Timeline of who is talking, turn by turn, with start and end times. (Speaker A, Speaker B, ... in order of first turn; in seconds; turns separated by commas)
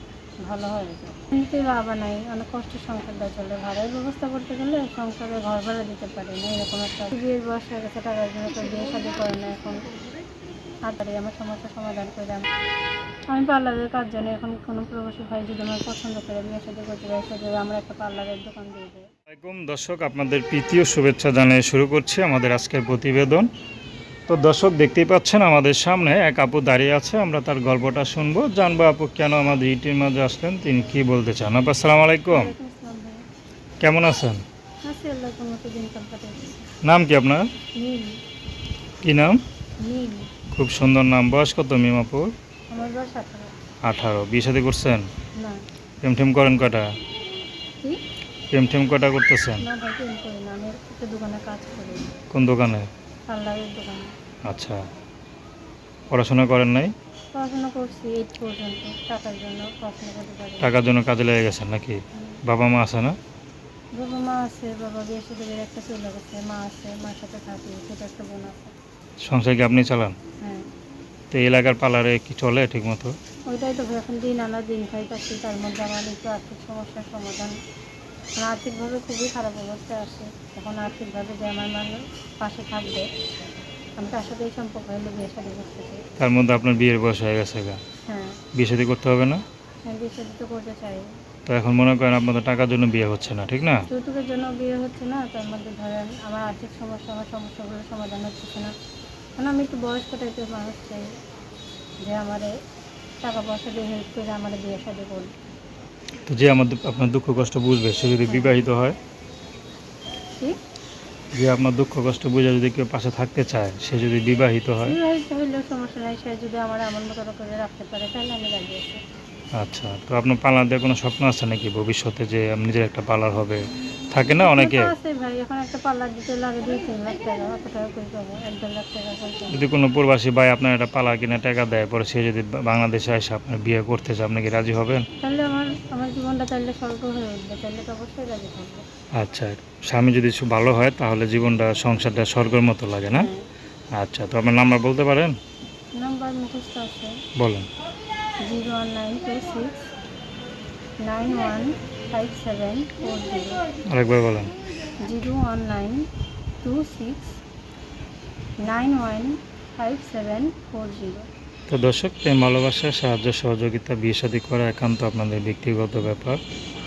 Speaker A: 0.4-9.8, Speaker A: 10.8-12.5, Speaker A: 13.3-19.1, Speaker B: 19.3-23.5, Speaker B: 24.3-32.5, Speaker A: 32.3-33.2, Speaker B: 33.8-34.4, Speaker A: 34.8-36.7, Speaker B: 36.8-37.5, Speaker A: 37.8-38.2, Speaker B: 39.0-39.4, Speaker A: 39.8-40.3, Speaker B: 40.5-42.3, Speaker A: 42.7-43.5, Speaker B: 43.9-45.1, Speaker B: 46.0-46.9, Speaker B: 48.5-49.6, Speaker A: 49.6-52.1, Speaker B: 52.3-52.9, Speaker A: 53.3-54.1, Speaker B: 54.5-54.8, Speaker B: 56.1-56.9, Speaker A: 57.3-60.7, Speaker B: 60.6-63.2, Speaker A: 62.1-62.4, Speaker A: 64.0-68.7, Speaker B: 69.3-70.2, Speaker A: 70.4-70.7, Speaker B: 71.3-73.1, Speaker A: 73.5-77.6, Speaker A: 78.4-83.1, Speaker A: 84.0-86.0, Speaker B: 86.2-87.8, Speaker A: 88.1-88.4, Speaker B: 88.6-89.4, Speaker A: 89.9-91.1, Speaker B: 91.5-93.8, Speaker A: 93.9-98.7, Speaker A: 99.4-101.1, Speaker A: 102.0-102.5, Speaker A: 103.2-105.3, Speaker B: 106.3-109.0, Speaker A: 108.2-108.6, Speaker B: 111.4-115.0, Speaker A: 114.8-119.0, Speaker B: 119.6-124.9, Speaker A: 124.3-129.6, Speaker B: 129.5-135.0, Speaker A: 135.2-138.8, Speaker B: 139.2-143.3, Speaker A: 143.1-143.4, Speaker B: 144.0-145.3, Speaker A: 146.0-147.2, Speaker B: 147.4-147.7, Speaker A: 148.4-149.8, Speaker A: 151.0-153.6, Speaker B: 153.9-154.5, Speaker A: 155.0-156.1, Speaker A: 156.6-157.4, Speaker A: 158.6-161.3, Speaker B: 161.7-166.4